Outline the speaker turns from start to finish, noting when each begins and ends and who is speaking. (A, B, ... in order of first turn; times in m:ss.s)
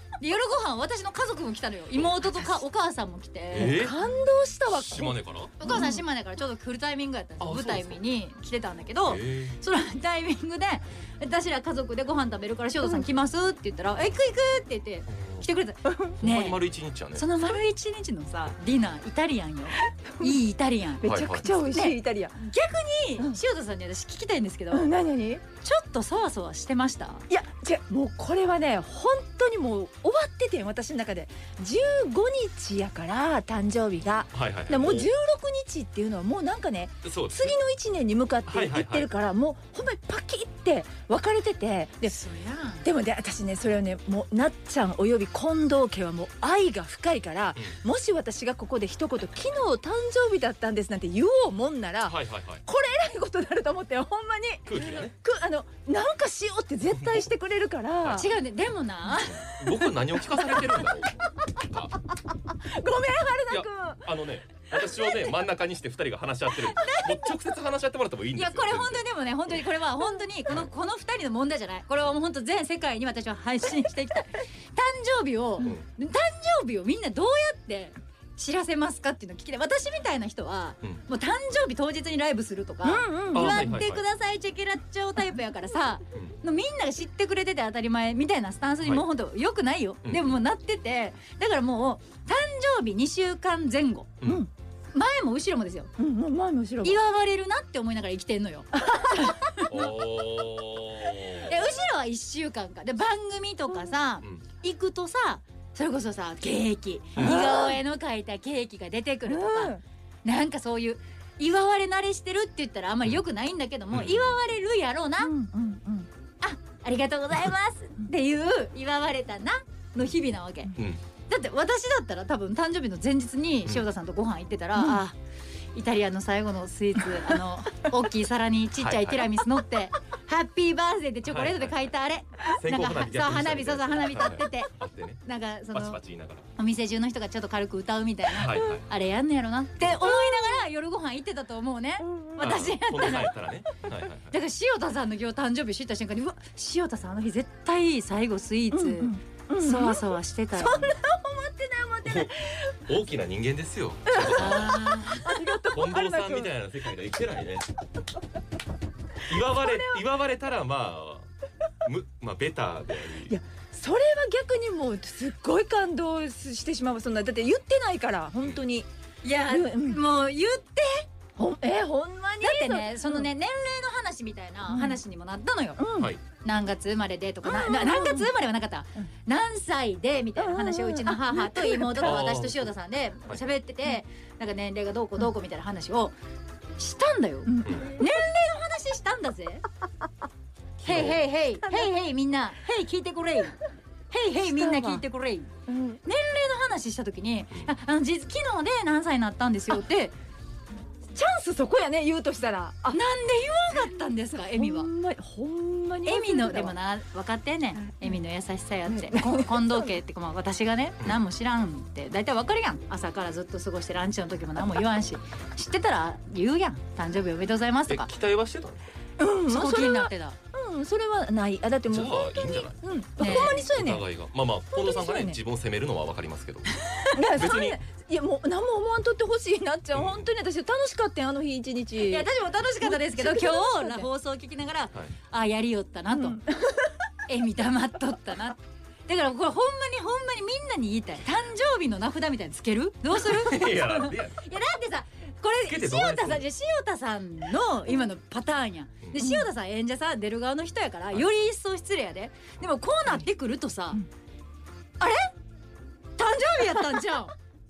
0:00.2-0:03.8 A
0:03.5-0:04.0 B
0:03.5-0:06.0 C
0:04.7-0:05.5 B
0:05.6-0:24.9 A
0:07.4-0:08.0 B
0:09.0-0:09.6 B
0:15.1-0:15.4 B
0:15.8-0:16.2 C
0:16.2-0:17.2 B
0:20.1-0:20.4 C
0:21.0-0:22.4 C
0:21.0-0:21.5 B
0:24.7-0:25.4 C
0:25.6-0:27.2 A
0:27.3-0:42.2 C
0:34.3-0:35.1 B
0:37.0-0:37.5 B
0:38.5-0:39.1 B
0:42.1-0:42.9 A
0:42.8-0:58.3 C
0:52.0-0:52.6 B
0:54.6-0:55.1 B
0:56.9-0:57.3 B
0:58.1-0:59.4 A
0:59.2-1:02.0 B
0:59.5-1:00.9 C
1:02.5-1:04.1 C
1:03.5-1:09.0 B
1:04.8-1:05.3 C
1:08.4-1:34.2 A
1:15.6-1:15.8 B
1:22.8-1:23.8 C
1:23.3-1:24.0 B
1:30.0-1:30.4 B
1:34.2-1:34.5 B
1:34.2-1:34.5 C
1:34.9-1:35.9 A
1:36.0-1:37.0 C
1:36.8-1:39.9 A
1:38.8-1:39.3 C
1:39.7-1:41.6 B
1:41.4-1:55.3 A
1:47.2-1:47.5 B
1:47.2-1:47.8 C
1:49.3-1:49.8 C
1:53.9-1:54.4 B
1:55.2-1:56.1 C
1:56.4-2:00.8 A
2:01.3-2:05.2 A
2:05.7-2:16.0 A
2:08.8-2:09.3 B
2:11.3-2:11.8 B
2:12.5-2:15.2 B
2:15.7-2:16.5 B
2:16.6-2:23.4 A
2:18.3-2:18.8 B
2:18.5-2:18.7 C
2:19.8-2:20.1 B
2:20.0-2:20.6 C
2:22.0-2:22.4 C
2:22.4-2:24.3 B
2:24.3-2:31.0 A
2:28.7-2:32.7 C
2:32.0-2:35.0 B
2:34.1-2:36.5 C
2:34.2-2:35.8 A
2:35.7-2:37.6 B
2:39.2-2:41.3 B
2:39.5-2:40.0 C
2:41.8-2:43.4 B
2:43.3-2:48.9 C
2:49.2-2:51.1 A
2:49.5-2:50.0 C
2:51.4-2:53.3 C
2:52.4-2:55.8 A
2:54.7-2:55.0 C
2:55.8-2:56.1 C
2:55.9-2:56.2 B
2:56.4-3:06.1 A
2:57.4-2:58.3 C
3:00.4-3:02.2 C
3:02.0-3:02.7 B
3:06.8-3:09.6 A
3:07.5-3:07.9 C
3:10.8-3:11.2 B
3:10.8-3:13.6 A
3:11.6-3:11.9 C
3:14.1-3:15.5 A
3:14.4-3:15.0 C
3:15.7-3:16.0 C
3:16.0-3:20.2 A
3:21.1-3:23.0 C
3:22.9-3:24.9 A
3:24.5-3:26.8 C
3:26.0-3:38.1 A
3:27.8-3:28.2 C
3:28.9-3:29.9 C
3:37.9-3:38.9 B
3:39.2-3:44.1 C
3:39.5-3:40.4 A
3:41.9-3:47.8 B
3:43.2-3:43.6 A
3:44.7-3:45.4 C
3:46.8-3:47.1 A
3:47.1-3:52.3 C
3:49.9-3:50.3 B
3:52.0-3:56.4 A
3:52.8-3:54.1 C
3:56.1-3:56.9 C
3:57.3-4:14.0 A
4:03.1-4:04.4 B
4:05.6-4:06.4 B
4:09.2-4:09.5 C
4:15.0-4:15.3 A
4:16.2-4:17.3 A